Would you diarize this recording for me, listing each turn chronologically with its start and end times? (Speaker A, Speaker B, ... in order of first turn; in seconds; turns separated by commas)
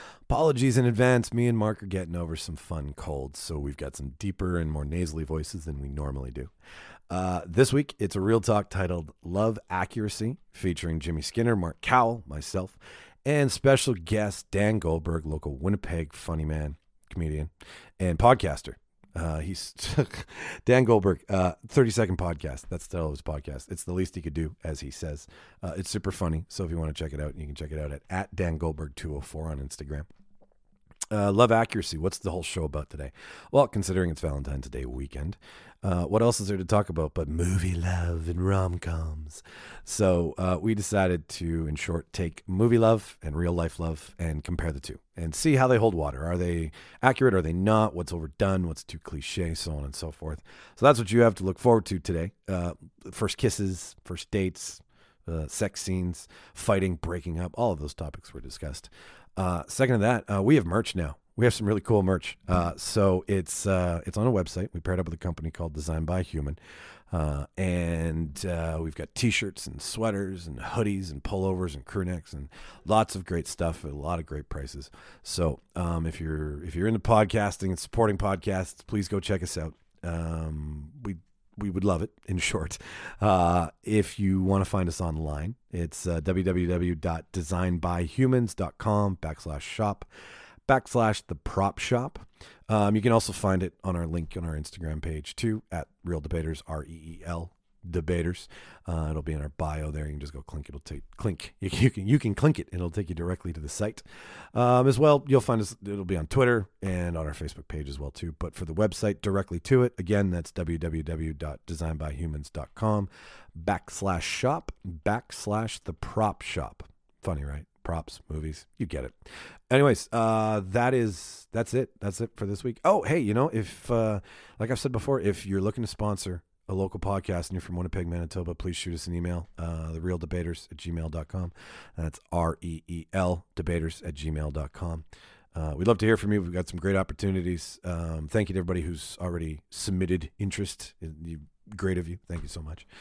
Speaker A: 0.3-6.5, Speaker A: 7.1-30.1, Speaker A: 31.1-66.6, Speaker A: 67.1-90.1, Speaker A: 90.7-119.2, Speaker A: 119.7-142.9